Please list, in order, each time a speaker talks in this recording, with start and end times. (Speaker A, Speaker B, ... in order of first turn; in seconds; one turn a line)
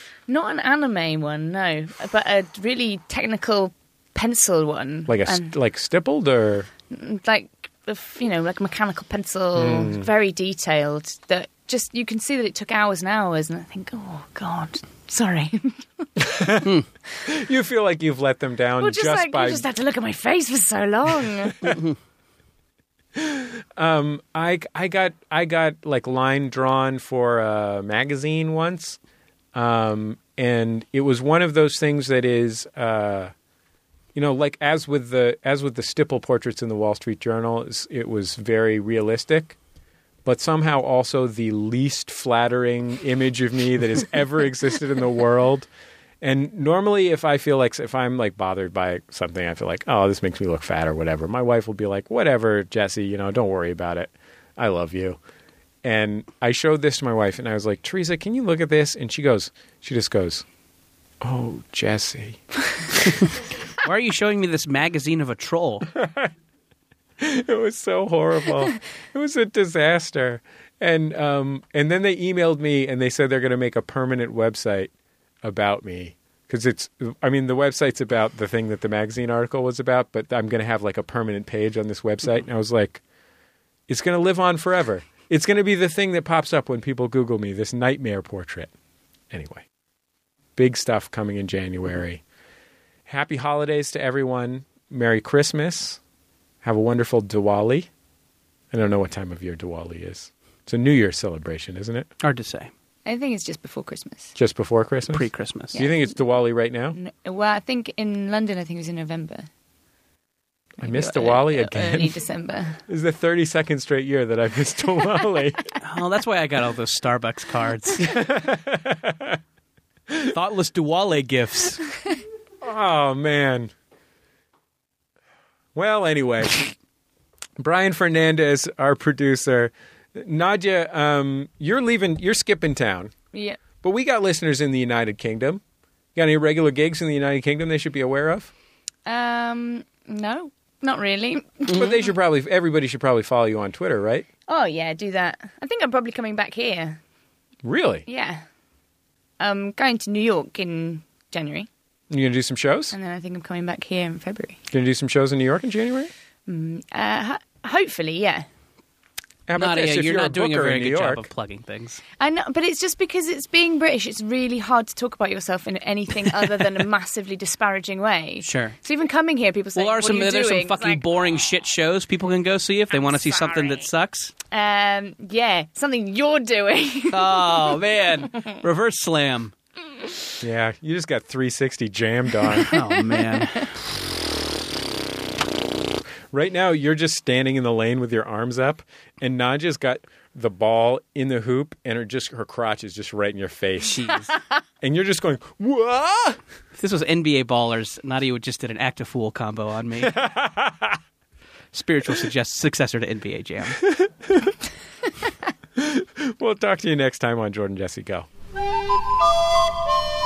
Speaker A: 0.3-5.5
Speaker B: 5.1-6.7
Speaker A: 6.9-15.8
Speaker B: 9.6-10.1
Speaker B: 16.2-19.7
Speaker A: 18.8-21.6
Speaker C: 21.6-22.0
Speaker B: 23.2-29.0
Speaker B: 29.5-33.3
Speaker B: 34.1-39.6
Speaker B: 40.2-45.7
Speaker B: 46.2-55.2
Speaker B: 55.8-60.5
Speaker B: 61.2-62.4
Speaker C: 63.8-65.9
Speaker B: 65.9-66.3
Speaker B: 67.2-74.9
Speaker B: 75.4-83.0
Speaker B: 83.9-88.7
Speaker B: 89.3-89.7
Speaker B: 90.6-92.2
Speaker B: 93.1-96.0
Speaker B: 96.6-97.9
Speaker B: 98.7-102.1
Speaker C: 102.2-102.7
Speaker A: 103.1-104.3
Speaker B: 104.3-107.0
Speaker C: 105.1-105.8
Speaker A: 105.7-106.2
Speaker A: 106.9-109.5
Speaker B: 110.8-112.2
Speaker A: 110.8-112.8
Speaker B: 112.9-115.7
Speaker C: 115.8-118.1
Speaker B: 118.0-119.4
Speaker C: 120.3-121.8
Speaker B: 122.6-123.7
Speaker B: 125.8-126.7
Speaker B: 127.6-133.1
Speaker A: 133.3-133.6
Speaker B: 133.8-135.6
Speaker B: 136.2-138.5
Speaker A: 139.1-141.8
Speaker B: 141.7-144.3
Speaker A: 144.5-147.0
Speaker B: 147.6-148.1
Speaker A: 148.1-148.4
Speaker A: 149.4-151.7
Speaker B: 152.1-152.9
Speaker A: 152.9-154.6
Speaker B: 154.7-156.1
Speaker A: 156.5-158.5
Speaker B: 159.5-161.2
Speaker C: 159.6-162.0
Speaker A: 162.2-171.3
Speaker C: 168.4-168.8
Speaker C: 169.8-174.3
Speaker A: 172.9-173.9
Speaker A: 174.5-177.6
Speaker C: 177.1-179.5
Speaker B: 180.4-182.7
Speaker C: 182.6-183.7
Speaker A: 182.7-183.6
Speaker B: 186.3-194.1
Speaker C: 193.8-194.4
Speaker B: 194.8-196.4
Speaker C: 196.8-200.2
Speaker B: 200.0-201.0
Speaker C: 201.7-203.8
Speaker B: 203.8-204.6
Speaker B: 205.8-208.3